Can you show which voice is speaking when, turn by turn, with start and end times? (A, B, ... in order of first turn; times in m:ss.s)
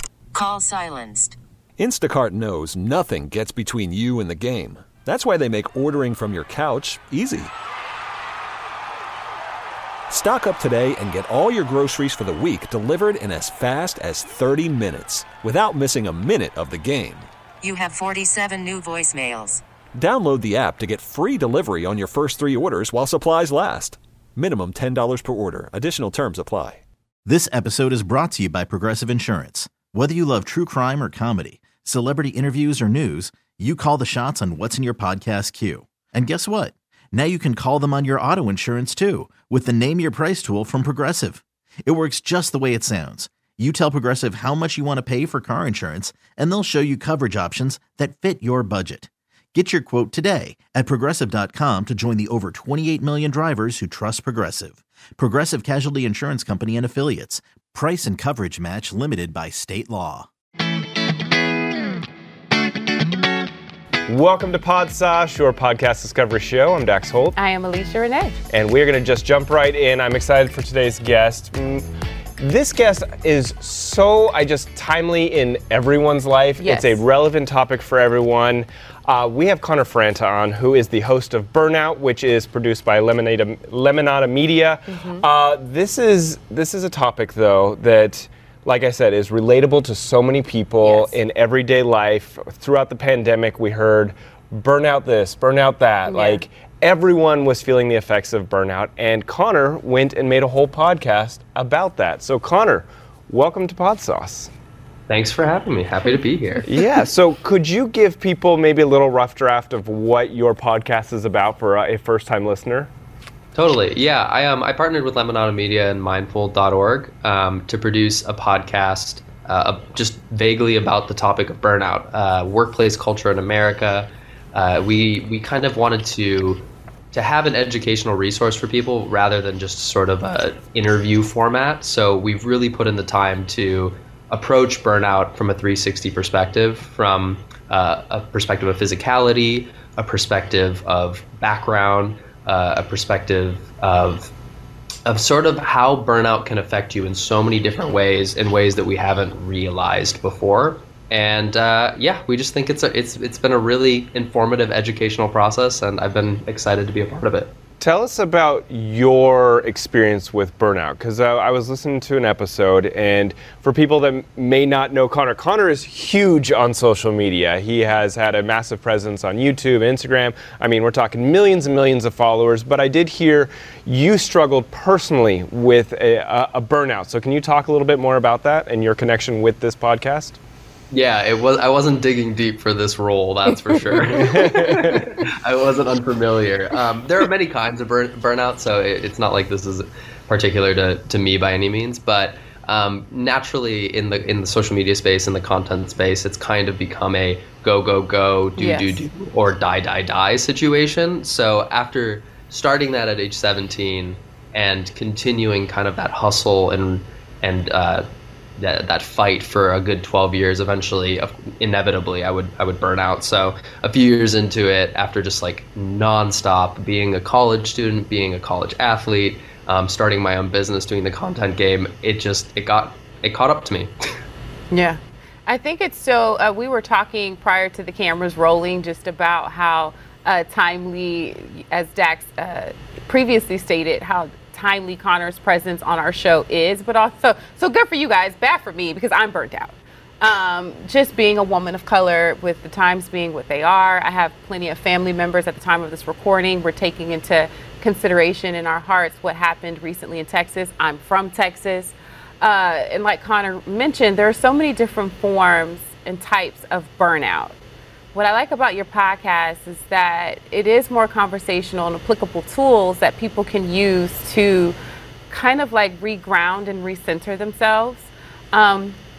0:00.3-0:01.4 A
0:01.8-0:07.5 B
0:10.1-0:17.3 B
0:17.6-0:19.6 A
0:20.0-0:26.8 B
0:27.2-1:00.3 C
1:04.1-1:07.4 D
1:07.3-1:08.4 E
1:08.5-1:11.8 D
1:12.4-1:44.5 D
1:16.6-1:17.0 E
1:24.9-1:25.2 E
1:30.8-1:31.2 E
1:36.1-1:36.4 E
1:45.1-1:46.6 F
1:46.7-1:52.9 D
1:53.5-2:24.3 F
2:25.0-2:37.5 F
2:37.8-3:00.4 D
3:00.9-3:28.0 F
3:04.2-3:05.0 D
3:18.6-3:19.0 E
3:28.6-3:43.9 F
3:44.7-4:17.6 E
4:18.1-4:24.8 E
4:25.3-4:29.0 E